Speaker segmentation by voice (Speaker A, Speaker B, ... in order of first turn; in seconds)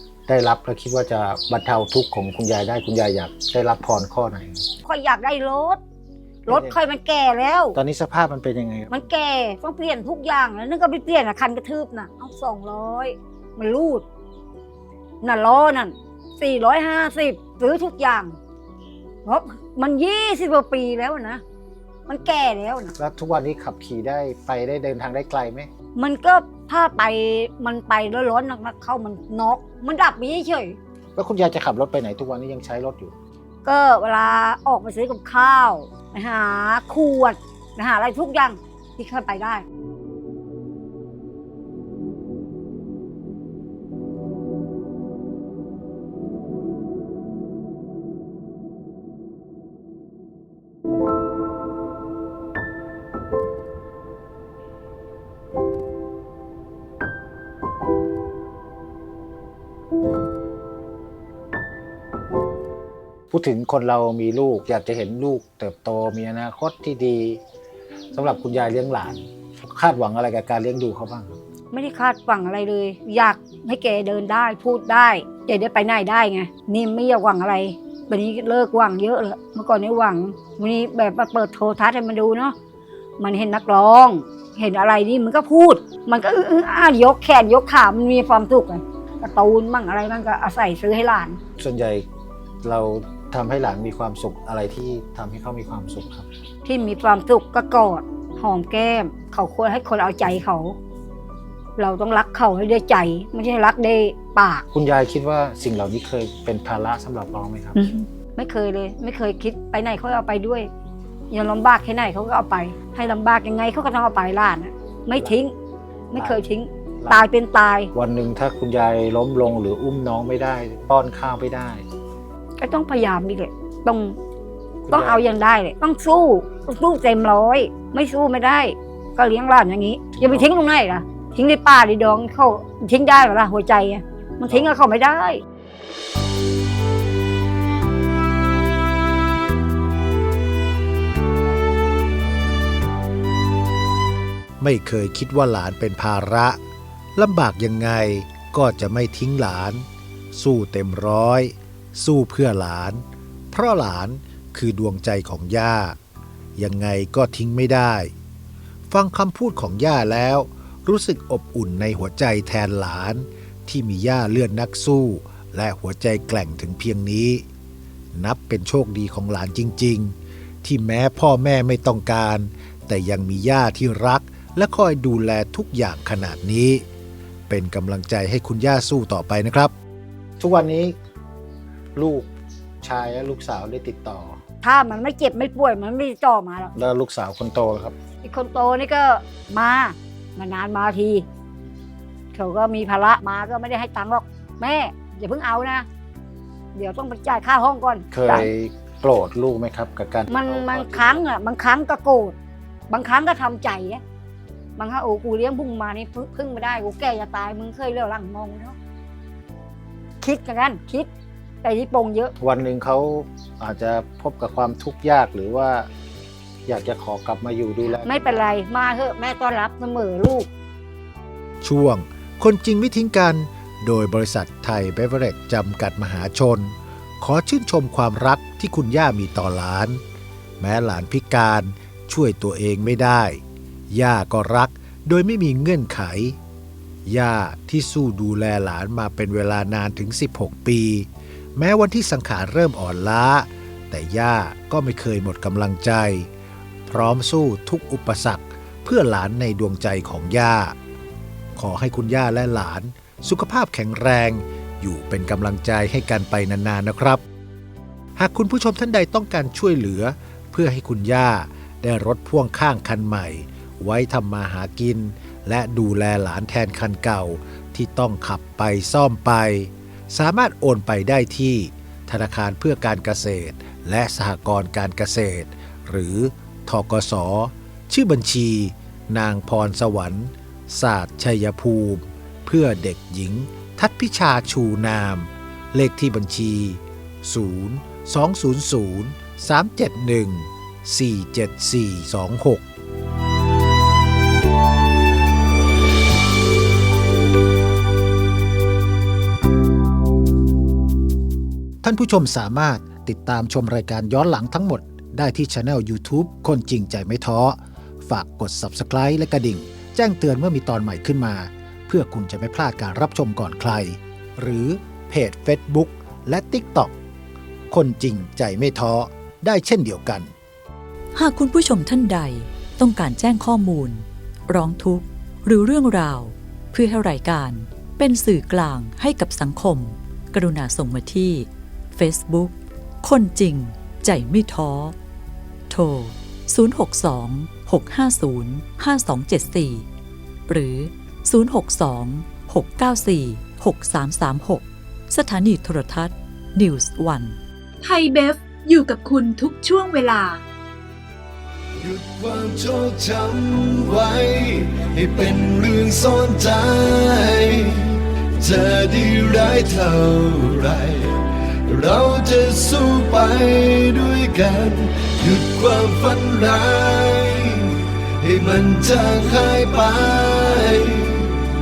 Speaker A: 0.3-4.6, 6.5-6.7, 7.7-8.9, 23.0-25.7, 31.1-33.1, 63.3-67.4, 68.1-71.4, 91.6-92.0, 92.6-96.3, 104.7-107.8, 116.1-116.4, 117.0-117.2, 117.9-121.8, 124.8-125.2, 130.2-130.5, 180.4-180.9, 181.9-182.3, 182.8-184.4, 186.7-187.9, 198.1-201.2, 212.4-215.9, 216.7-218.4
Speaker B: 4.8-5.8, 6.5-7.7, 8.9-14.0, 15.2-18.4, 19.2-21.4, 22.1-22.9, 25.9-30.8, 33.6-39.6, 71.7-82.5, 83.2-91.4, 96.6-100.8, 101.8-104.7, 107.8-110.7, 111.3-115.5, 116.1-117.9, 122.6-124.2, 124.9-135.4, 184.6-186.7, 188.2-191.2, 192.3-195.8, 196.7-198.5, 200.3-202.3, 202.9-204.0, 204.8-208.8, 210.2-211.1, 211.6-212.3, 218.0-220.5
Speaker C: 144.6-146.6, 147.2-156.0, 156.6-158.1, 158.9-167.4, 168.1-176.8, 177.5-179.7, 221.6-230.0, 230.6-236.4, 237.1-246.3, 246.8-250.8, 251.6-257.2, 258.2-292.6, 301.8-316.9, 317.7-320.3
Speaker D: 321.1-334.9, 335.7-339.9, 340.5-347.4
Speaker E: 347.8-350.4
Speaker F: 351.8-371.3